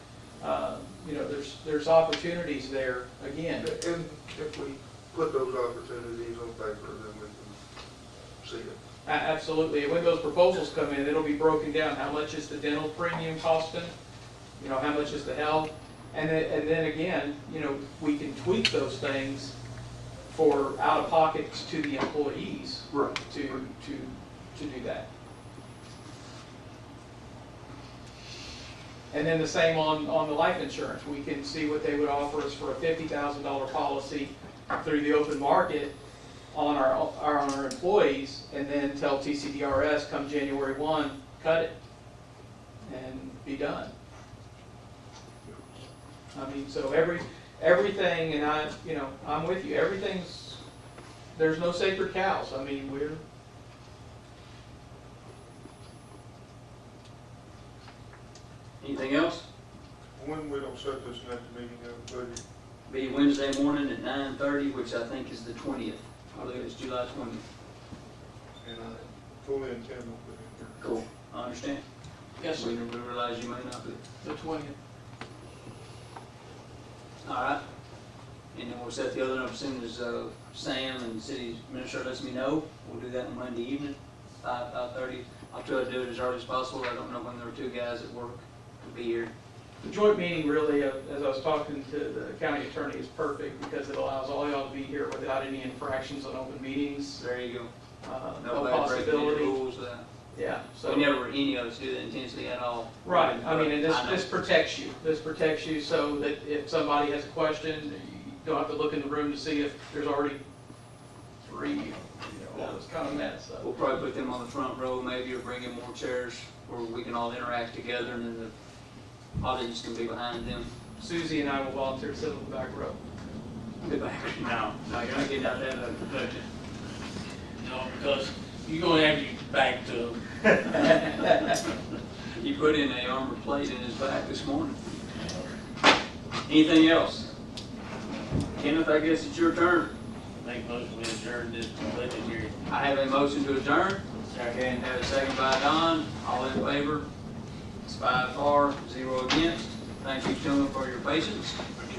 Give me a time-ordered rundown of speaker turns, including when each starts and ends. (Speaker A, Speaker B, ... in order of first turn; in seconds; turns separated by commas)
Speaker A: 0.4-3.7, Speaker B: 3.6-7.6, Speaker B: 8.4-8.8, Speaker A: 9.1-13.9, Speaker A: 14.6-19.6, Speaker A: 20.3-25.1, Speaker B: 22.9-23.2, Speaker A: 29.1-36.0, Speaker A: 36.5-41.7, Speaker A: 42.8-43.9, Speaker A: 46.3-50.6, Speaker A: 51.3-53.2, Speaker C: 58.8-59.4, Speaker B: 60.2-62.4, Speaker C: 62.9-67.4, Speaker B: 68.6-70.9, Speaker C: 70.8-71.8, Speaker A: 72.4-72.7, Speaker C: 72.5-74.0, Speaker A: 74.2-74.8, Speaker C: 77.2-77.6, Speaker C: 78.5-89.3, Speaker A: 89.8-97.2, Speaker C: 97.2-97.7, Speaker A: 98.0-99.6, Speaker C: 98.4-100.0, Speaker A: 100.3-101.1, Speaker C: 100.8-104.3, Speaker A: 103.0-110.4, Speaker A: 111.4-113.7, Speaker C: 113.6-118.5, Speaker C: 119.4-120.7, Speaker A: 121.0-123.0, Speaker C: 123.8-126.5, Speaker D: 127.6-131.4, Speaker C: 132.3-134.8, Speaker C: 136.5-137.3, Speaker C: 138.5-139.9, Speaker D: 140.4-142.6, Speaker C: 142.7-144.1, Speaker D: 144.3-144.8, Speaker C: 144.6-147.1, Speaker C: 147.8-151.6